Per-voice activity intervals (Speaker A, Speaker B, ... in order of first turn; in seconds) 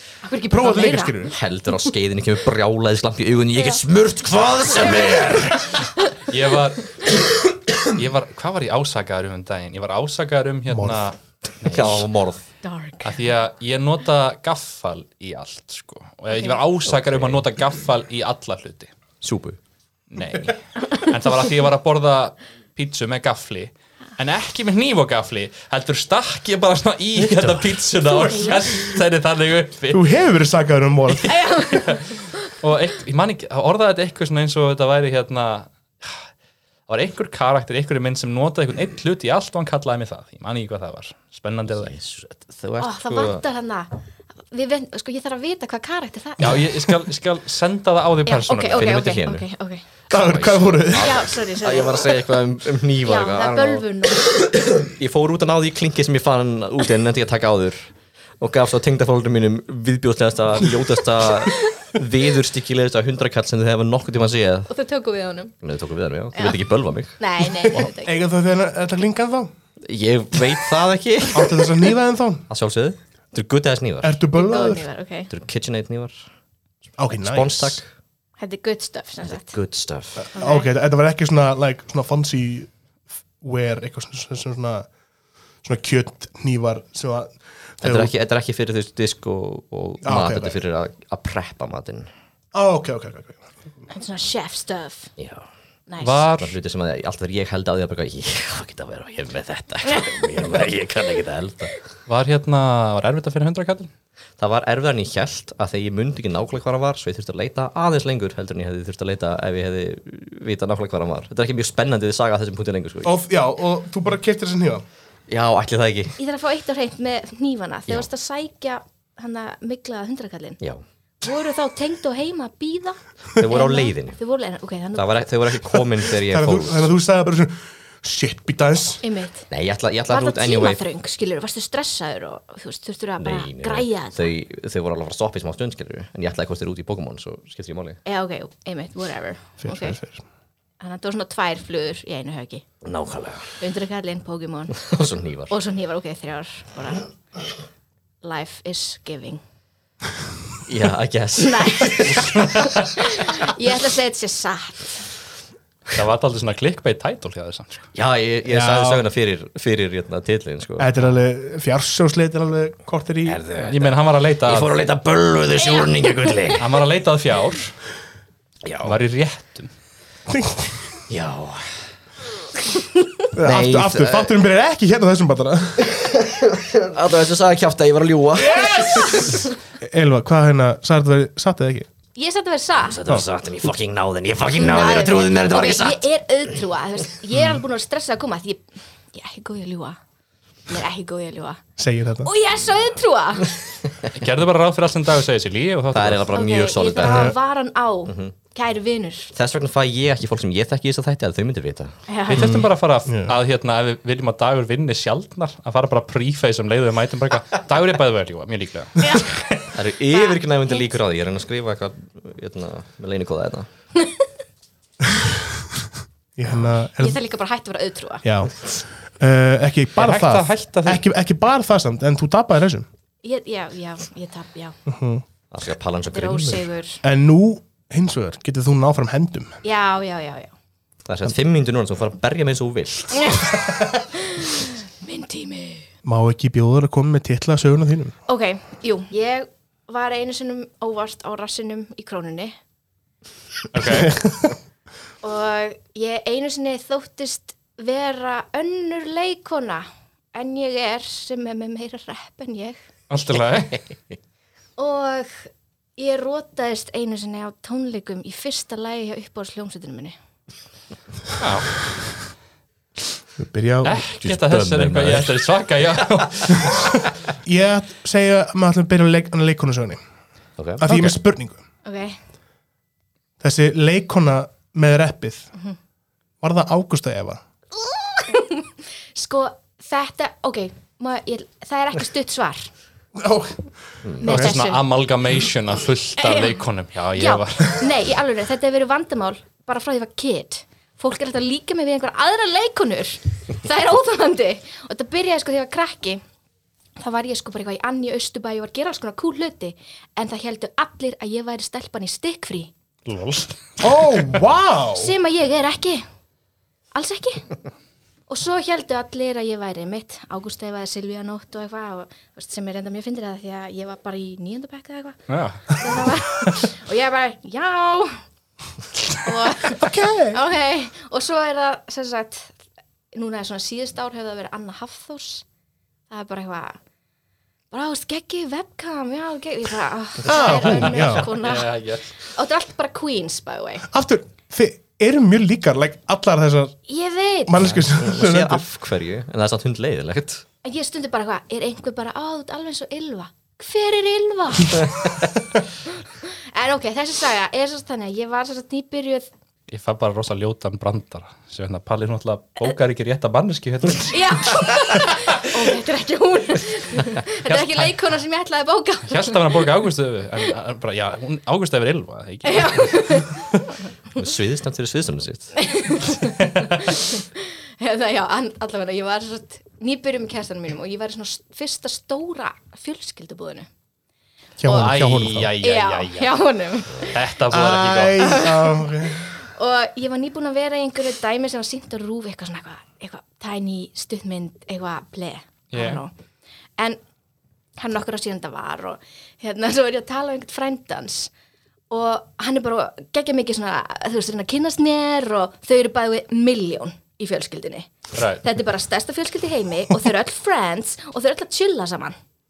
Speaker A: 0.2-1.2, 4.7-5.3, 12.6-13.1, 28.1-28.7, 31.3-32.0, 42.8-43.9, 44.5-46.6, 48.2-49.8, 51.0-52.1, 53.0-54.3, 64.7-65.5, 66.3-66.6, 67.2-68.1, 74.3-75.3, 78.4-79.5, 80.3-80.7, 93.9-95.1, 95.9-96.3, 99.9-100.5, 116.2-120.6, 121.2-125.2, 129.0-129.5, 130.1-134.3, 138.0-140.0, 140.8-142.6, 143.6-144.8, 145.5-147.1, 148.2-149.4, 151.4-155.0, 178.7-179.4, 182.1-183.0, 184.5-190.0, 190.7-191.6, 192.2-193.6, 196.3-199.3, 202.1-202.5, 209.0-210.8, 217.0-218.2, 223.2-224.8, 226.1-227.0, 229.6-230.5, 233.2-235.9, 238.3-242.5, 245.2-252.8, 254.8-260.1, 271.8-272.2, 277.8-282.7, 284.2-284.8, 286.2-286.6, 287.1-296.2, 297.0-302.7, 304.9-306.0, 306.9-307.5, 308.3-315.2, 315.7-318.2, 319.2-322.5, 323.1-325.4, 326.1-326.8, 327.7-333.9, 336.9-337.7, 340.6-345.3, 346.2-349.3, 354.1-359.7, 362.4-363.6, 365.6-373.7, 375.6-377.2, 378.2-386.1, 387.8-391.3, 391.9-402.1
Speaker B: 0.5-1.3, 10.7-11.0, 29.9-31.6, 50.1-51.2, 67.7-69.5, 71.3-72.5, 74.0-74.9, 77.0-77.8, 80.3-82.7, 83.4-84.9, 85.6-88.1, 90.0-90.6, 92.5-93.5, 113.0-114.8, 126.2-129.0, 139.6-140.2, 158.5-159.1, 160.8-163.4, 170.3-170.8, 173.3-175.9, 178.4-181.9, 191.8-192.3, 197.0-197.3, 202.4-203.3, 216.4-217.2, 218.2-222.8, 224.8-225.2, 227.0-229.6, 236.0-238.1, 263.4-264.0, 267.4-270.0, 270.8-271.6, 273.4-275.5, 276.4-277.4, 283.1-283.7, 284.2-284.5, 303.8-305.1, 319.8-320.4, 330.2-331.3, 333.9-336.7, 337.4-338.6, 374.6-375.5, 377.5-379.3
Speaker C: 1.3-5.7, 11.6-12.5, 16.9-17.4, 19.2-19.6, 27.2-27.7, 41.7-43.4, 48.7-49.5, 50.1-53.9, 54.4-64.7, 65.6-67.2, 69.8-71.7, 72.5-74.2, 75.3-76.3, 77.1-77.9, 79.2-80.3, 87.8-92.1, 95.2-95.5, 96.4-101.7, 104.4-113.2, 115.3-116.2, 123.3-124.2, 124.9-126.9, 129.5-130.8, 133.2-138.0, 142.8-143.6, 144.8-145.5, 150.7-152.4, 157.9-160.9, 163.2-166.7, 168.6-168.9, 171.1-171.7, 173.4-174.3, 175.9-179.2, 182.8-186.1, 195.9-197.3, 198.1-198.3, 199.3-201.9, 209.7-213.7, 225.5-226.7, 231.1-233.4, 264.1-265.4, 270.6-271.1, 337.6-340.4, 364.1-365.5
Speaker D: 6.3-6.9, 7.8-12.1, 13.0-18.9, 20.1-30.1, 31.7-36.2, 36.9-41.9, 46.4-49.0, 96.0-96.5, 102.1-103.9, 155.9-157.9, 163.6-164.7, 166.6-167.8, 168.8-169.7, 194.1-196.3, 202.3-209.4, 220.0-221.0, 243.7-244.3, 253.1-253.8, 261.4-262.2, 263.8-267.0, 284.2-287.9, 303.1-304.1, 315.3-316.6, 330.6-332.1, 349.7-355.4, 357.4-358.1, 359.1-363.3, 366.2-366.9, 374.6-376.4, 377.0-378.4, 385.7-386.0, 398.1-398.4